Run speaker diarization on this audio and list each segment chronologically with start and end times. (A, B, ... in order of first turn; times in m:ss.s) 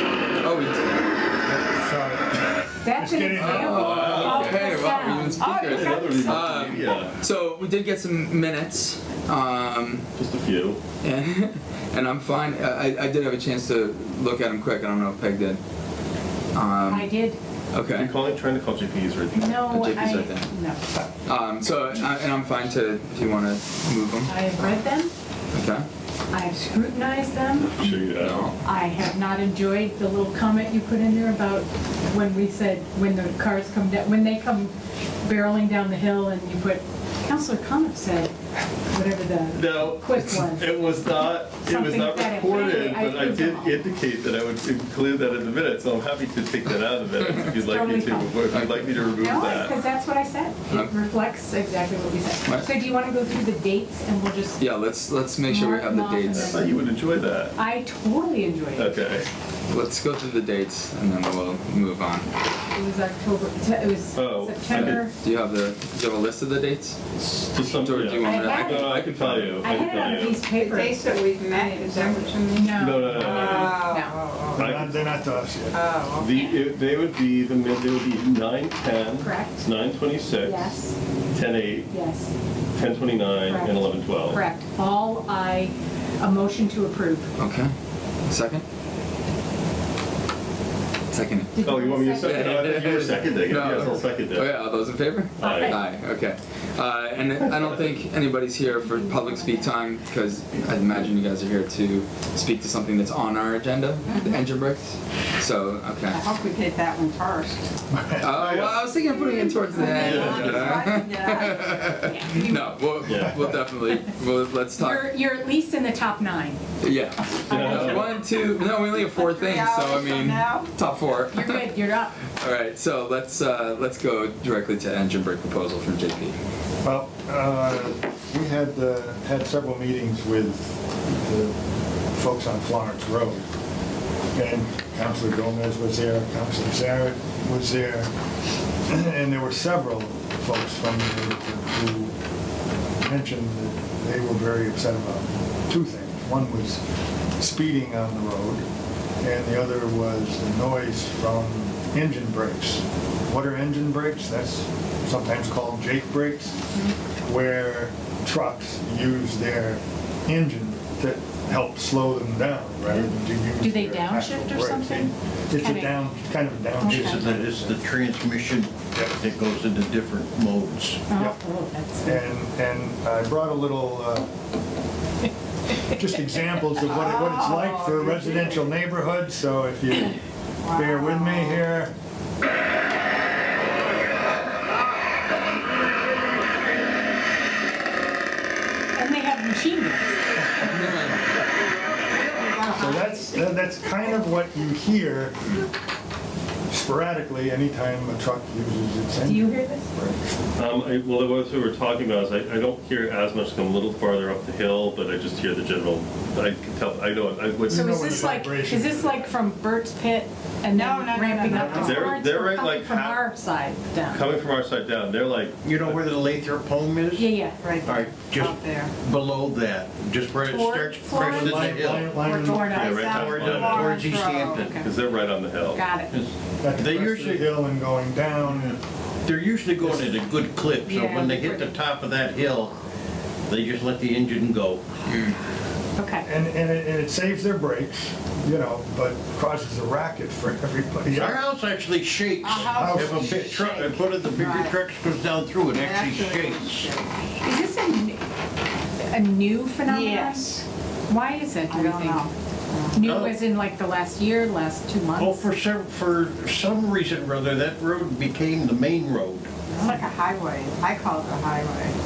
0:00.4-0:01.0 A
0:01.4-0:04.3 B
0:02.8-0:05.6 C
0:03.3-0:10.0 A
0:03.9-0:04.6 D
0:05.3-0:06.5 E
0:05.6-0:07.2 D
0:10.2-0:10.8 D
0:11.0-0:15.6 A
0:16.5-0:17.1 A
0:16.9-0:17.4 C
0:17.7-0:18.1 A
0:17.9-0:19.8 D
0:19.3-0:20.8 C
0:19.6-0:20.5 A
0:21.2-0:24.4 A
0:24.2-0:25.1 C
0:25.5-0:25.9 A
0:26.3-0:27.8 C
0:27.6-0:28.5 D
0:28.1-0:28.6 A
0:28.6-0:38.3 C
0:38.9-0:43.8 C
0:39.5-0:49.8 D
0:47.2-0:47.6 A
0:47.6-0:48.4 C
0:48.5-0:49.5 A
0:49.2-0:54.6 C
0:50.7-0:50.9 A
0:52.4-0:52.8 A
0:54.6-0:56.7 A
0:55.4-0:56.7 C
0:56.3-0:57.6 D
0:57.6-0:59.3 C
0:58.8-0:59.3 D
0:59.7-1:02.3 A
1:02.7-1:05.1 C
1:04.1-1:05.0 D
1:04.7-1:07.0 A
1:07.4-1:10.4 D
1:07.6-1:09.8 A
1:08.2-1:08.9 C
1:09.6-1:14.1 C
1:10.5-1:14.7 E
1:12.7-1:13.9 D
1:14.5-1:15.8 B
1:14.6-1:15.2 D
1:15.7-1:16.4 E
1:16.2-1:20.8 D
1:16.3-1:16.6 C
1:19.2-1:19.7 C
1:20.4-1:20.9 C
1:21.3-1:21.9 D
1:21.9-1:22.3 C
1:22.7-1:24.4 D
1:23.4-1:27.3 C
1:27.4-1:27.7 A
1:28.2-1:28.6 A
1:31.1-1:31.6 A
1:31.5-1:32.4 C
1:31.6-1:34.5 D
1:32.2-1:46.2 A
1:35.4-1:35.8 D
1:35.4-1:35.8 C
1:38.6-1:39.8 C
1:44.1-1:44.3 E
1:46.1-1:47.7 E
1:47.9-1:48.4 B
1:48.2-1:55.1 A
1:48.3-1:48.8 D
1:49.6-1:50.0 C
1:49.6-1:52.7 E
1:49.9-1:50.8 D
1:52.0-1:52.4 C
1:53.0-1:53.4 D
1:54.8-1:56.6 C
1:56.8-2:06.4 A
1:57.5-1:58.0 C
1:57.5-1:58.2 D
1:59.0-2:00.7 E
2:01.2-2:02.3 C
2:06.8-2:11.6 B
2:12.1-2:13.4 B
2:14.3-2:18.1 B
2:18.9-2:22.1 B
2:23.0-2:26.8 B
2:27.4-2:28.6 B
2:29.2-2:36.6 B
2:37.2-2:47.8 B
2:43.6-2:46.0 C
2:46.8-2:47.2 C
2:46.8-2:51.1 F
2:51.1-2:52.2 C
2:52.0-2:54.3 B
2:55.8-3:00.2 B
2:56.8-2:58.7 E
3:00.6-3:01.6 E
3:00.7-3:01.9 B
3:08.9-3:10.2 C
3:10.6-3:11.2 A
3:12.1-3:13.3 E
3:12.7-3:15.4 B
3:16.7-3:20.1 B
3:19.2-3:20.1 C
3:20.6-3:28.2 D
3:27.7-3:29.3 B
3:27.7-3:34.3 C
3:30.7-3:32.1 E
3:31.5-3:33.2 D
3:31.5-3:32.0 B
3:34.1-3:36.0 D
3:35.6-3:37.3 F
3:37.1-3:37.7 C
3:37.6-3:38.9 E
3:37.8-3:44.8 F
3:40.4-3:43.0 C
3:41.1-3:42.7 B
3:42.6-3:44.8 E
3:42.8-3:45.9 D
3:45.7-3:46.1 C
3:46.1-3:47.5 F
3:46.6-3:48.8 B
3:49.2-3:52.8 F
3:49.8-3:50.2 B
3:50.8-3:51.7 C
3:53.5-3:54.8 F
3:55.0-3:55.4 A
3:56.0-3:56.3 C
3:56.2-4:01.4 B
4:01.1-4:06.9 F
4:02.4-4:04.8 E
4:02.5-4:03.5 B
4:05.7-4:07.3 E
4:07.4-4:08.2 C
4:09.0-4:12.3 C
4:09.8-4:10.6 E
4:11.7-4:13.1 E
4:12.9-4:15.5 C
4:13.0-4:13.4 F
4:15.2-4:19.5 F
4:19.7-4:22.0 E
4:19.7-4:20.1 C